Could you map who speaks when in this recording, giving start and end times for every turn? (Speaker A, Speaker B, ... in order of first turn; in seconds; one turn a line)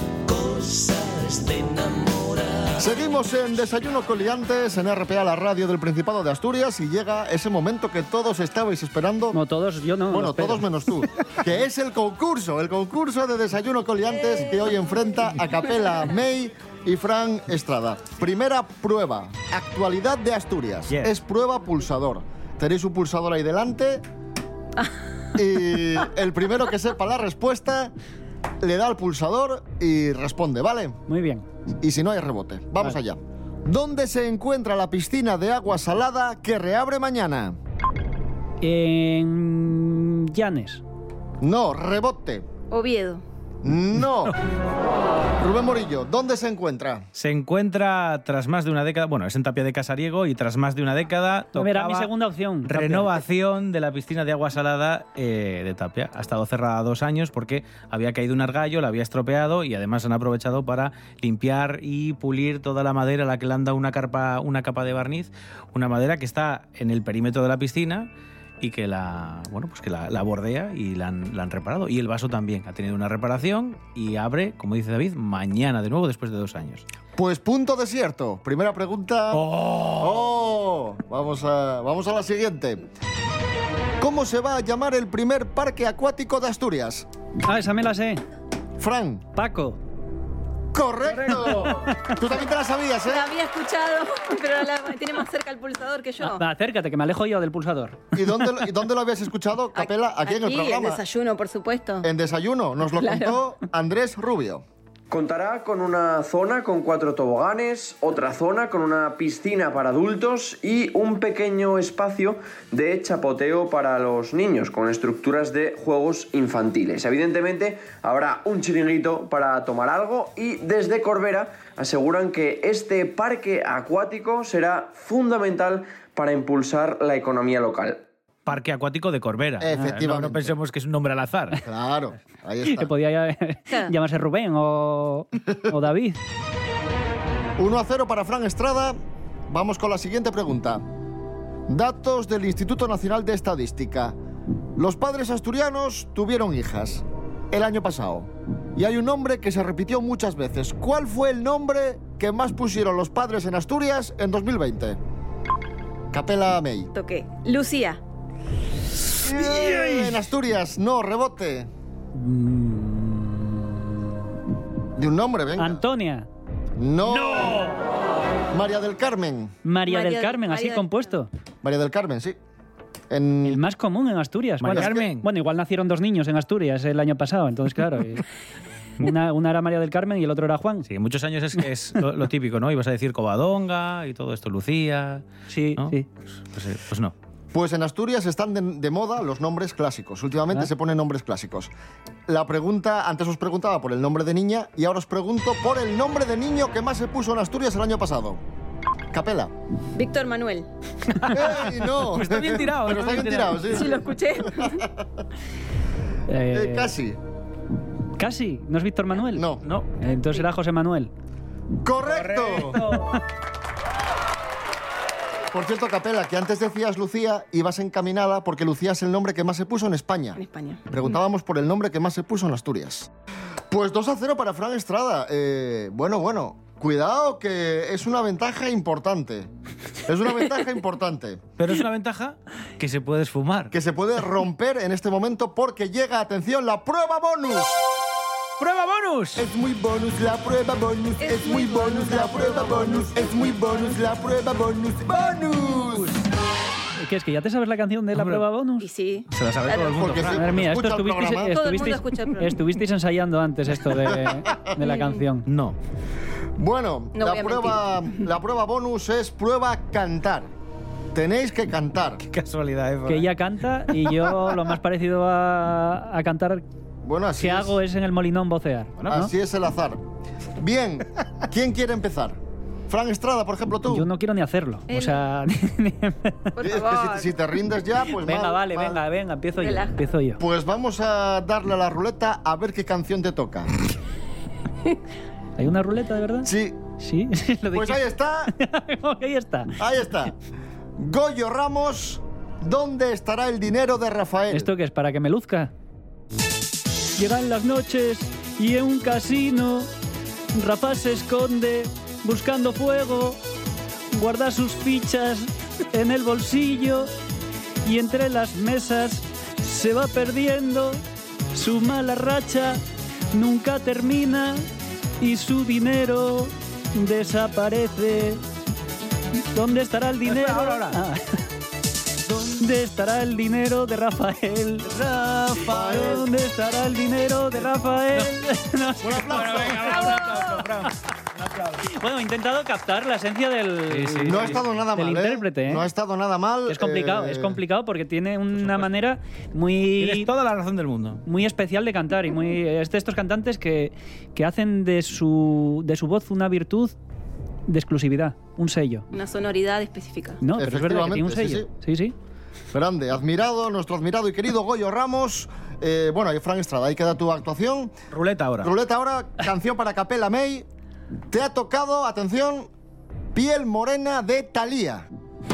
Speaker A: 0.3-3.0
Speaker B: 2.8-9.4
Speaker C: 9.3-10.7
Speaker B: 10.1-24.0
Speaker B: 25.4-27.9
Speaker B: 28.6-31.0
Speaker C: 31.1-31.5
Speaker B: 31.8-37.6
Speaker C: 38.6-40.8
Speaker B: 41.4-42.5
Speaker D: 42.7-43.2
Speaker B: 43.6-44.4
Speaker B: 45.4-47.1
Speaker E: 47.1-52.1
Speaker C: 51.5-53.2
Speaker E: 52.6-68.1
Speaker E: 68.6-76.8
Speaker B: 77.2-82.8
Speaker E: 79.3-80.3
Speaker B: 84.0-87.1
Speaker C: 87.5-88.2
Speaker B: 88.8-89.3
Speaker C: 89.4-89.8
Speaker B: 90.7-93.3
Speaker C: 91.1-92.2
Speaker D: 93.0-96.4
Speaker C: 96.2-98.2
Speaker B: 98.1-101.0
Speaker D: 99.8-102.1
Speaker B: 102.0-104.6
Speaker D: 103.0-103.4
Speaker F: 105.1-128.0
Speaker E: 128.5-131.6
Speaker B: 129.6-130.6
Speaker B: 131.6-132.9
Speaker C: 132.7-136.2
Speaker B: 137.6-139.0
Speaker B: 139.5-140.8
Speaker B: 141.7-144.2
Speaker B: 144.8-155.0
Speaker B: 156.1-156.9
Speaker D: 156.9-158.0
Speaker B: 159.2-161.7
Speaker C: 162.1-164.2
Speaker B: 165.0-165.8
Speaker C: 165.6-166.3
Speaker B: 166.8-167.7
Speaker E: 167.1-167.8
Speaker B: 168.5-169.5
Speaker C: 169.7-171.3
Speaker D: 169.9-171.1
Speaker B: 171.6-172.4
Speaker B: 173.1-173.6
Speaker C: 173.4-178.2
Speaker E: 174.6-175.3
Speaker B: 174.7-175.1
Speaker C: 179.0-180.9
Speaker E: 180.9-185.3
Speaker C: 185.5-186.1
Speaker E: 185.8-187.1
Speaker B: 187.5-191.7
Speaker B: 192.3-198.4
Speaker B: 199.1-199.5
Speaker D: 199.9-200.7
Speaker E: 201.2-203.9
Speaker B: 201.3-204.9
Speaker D: 203.7-204.8
Speaker C: 206.3-206.9
Speaker B: 206.5-207.2
Speaker C: 208.2-209.4
Speaker B: 209.3-209.7
Speaker E: 209.6-209.9
Speaker C: 210.0-211.1
Speaker D: 210.1-210.4
Speaker B: 211.8-212.8
Speaker E: 212.1-213.0
Speaker C: 212.7-213.2
Speaker B: 215.5-223.1
Speaker D: 220.4-220.9
Speaker B: 223.7-229.5
Speaker B: 230.1-231.5
Speaker E: 231.6-233.7
Speaker B: 233.7-237.8
Speaker E: 238.6-239.4
Speaker B: 239.4-246.2
Speaker D: 241.2-244.0
Speaker C: 247.0-248.9
Speaker E: 248.1-248.4
Speaker D: 248.8-250.0
Speaker E: 249.3-250.4
Speaker B: 249.9-251.7
Speaker C: 250.3-255.5
Speaker D: 251.4-252.6
Speaker B: 254.3-254.7
Speaker D: 254.8-255.2
Speaker E: 255.5-255.8
Speaker B: 256.6-260.5
Speaker D: 257.2-257.9
Speaker B: 261.1-262.2
Speaker E: 262.2-263.4
Speaker C: 263.1-266.6
Speaker E: 264.0-264.3
Speaker B: 267.0-267.8
Speaker C: 267.4-269.3
Speaker E: 269.0-269.2
Speaker B: 269.1-270.0
Speaker B: 270.6-272.4
Speaker B: 272.9-274.1
Speaker C: 273.9-276.5
Speaker D: 274.9-275.2
Speaker D: 276.6-277.3
Speaker B: 276.6-279.0
Speaker C: 278.1-280.4
Speaker D: 279.6-280.0
Speaker B: 280.4-283.7
Speaker C: 285.6-289.8
Speaker B: 286.4-286.8
Speaker B: 287.7-288.5
Speaker B: 289.8-290.4
Speaker B: 291.0-294.7
Speaker C: 294.5-295.7
Speaker C: 297.2-299.9
Speaker C: 300.5-303.4
Speaker C: 304.1-307.1
Speaker C: 307.8-311.0
Speaker C: 311.5-312.8
Speaker C: 313.3-314.6
Speaker C: 315.2-318.4
Speaker C: 319.5-321.4
Speaker E: 320.3-321.0
Speaker E: 322.3-322.6
Speaker C: 322.6-324.9
Speaker E: 324.9-326.2
Speaker B: 325.7-326.2
Speaker C: 325.7-330.9
Speaker B: 329.0-330.1
Speaker E: 329.1-331.9
Speaker C: 331.9-335.9
Speaker E: 333.9-334.7
Speaker B: 334.3-337.6
Speaker C: 336.7-340.3
Speaker E: 338.6-338.9
Speaker E: 340.0-341.2
Speaker C: 341.3-346.9
Speaker C: 347.7-349.1
Speaker D: 349.1-350.4
Speaker C: 350.4-352.1
Speaker B: 350.5-351.7
Speaker B: 352.7-357.9
Speaker E: 358.1-358.7
Speaker B: 358.6-360.7
Speaker B: 361.3-362.7
Speaker B: 363.4-365.1